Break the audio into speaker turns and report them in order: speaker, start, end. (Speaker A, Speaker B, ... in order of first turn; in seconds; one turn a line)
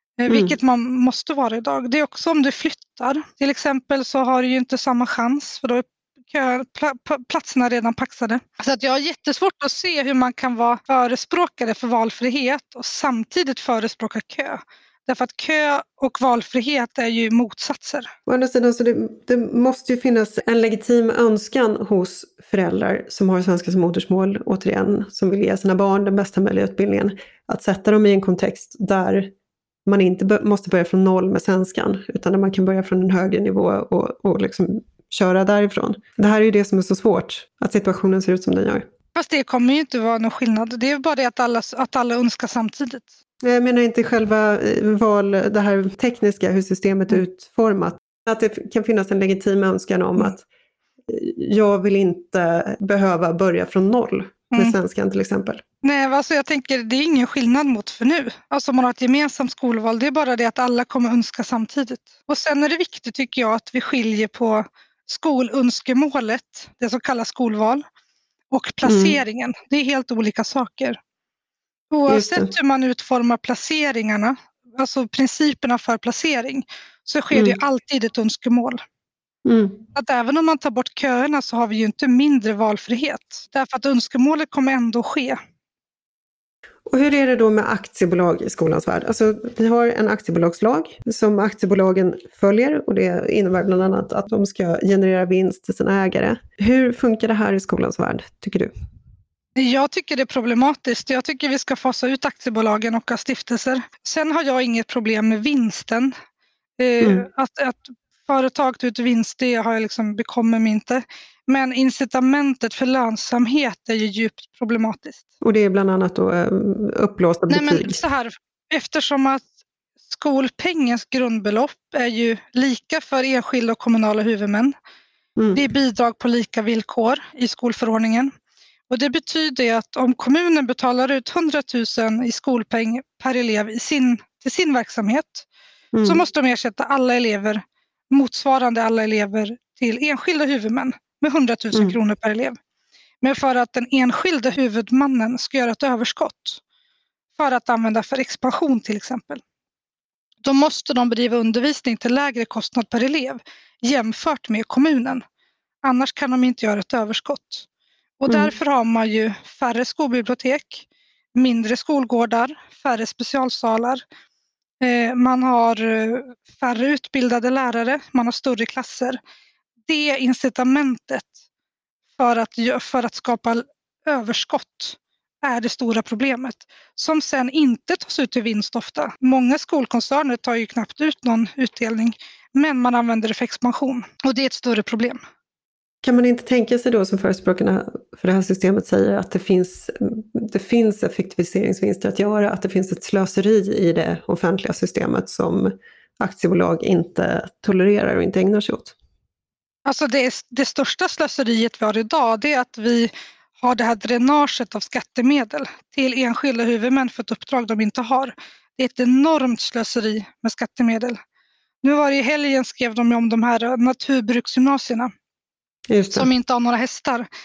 Speaker A: 0.2-18.1
Speaker B: 0.3-0.6
Speaker B: 18.3-29.3
Speaker B: 29.9-38.9
Speaker A: 39.1-43.1
Speaker B: 43.4-50.5
Speaker B: 51.1-55.6
Speaker A: 55.8-67.8
Speaker A: 68.5-71.0
Speaker B: 68.8-69.2
Speaker A: 71.9-78.8
Speaker B: 72.1-72.5
Speaker B: 77.3-77.6
Speaker B: 79.5-79.8
Speaker A: 80.0-85.4
Speaker B: 86.9-98.7
Speaker A: 99.6-106.1
Speaker A: 106.8-115.2
Speaker B: 107.0-107.3
Speaker B: 115.4-118.0
Speaker A: 117.5-119.5
Speaker A: 120.1-124.7
Speaker B: 125.4-125.6
Speaker A: 125.5-128.3
Speaker A: 128.9-135.5
Speaker B: 135.9-136.2
Speaker A: 136.1-142.6
Speaker A: 143.2-146.6
Speaker A: 147.4-149.4
Speaker A: 150.4-155.2
Speaker A: 155.8-157.7
Speaker A: 158.2-164.0
Speaker B: 158.3-158.5
Speaker A: 164.8-169.2
Speaker A: 169.9-171.4
Speaker A: 172.2-185.2
Speaker B: 186.0-199.0
Speaker A: 199.9-211.2
Speaker A: 211.8-215.1
Speaker B: 215.9-216.3
Speaker A: 216.1-217.3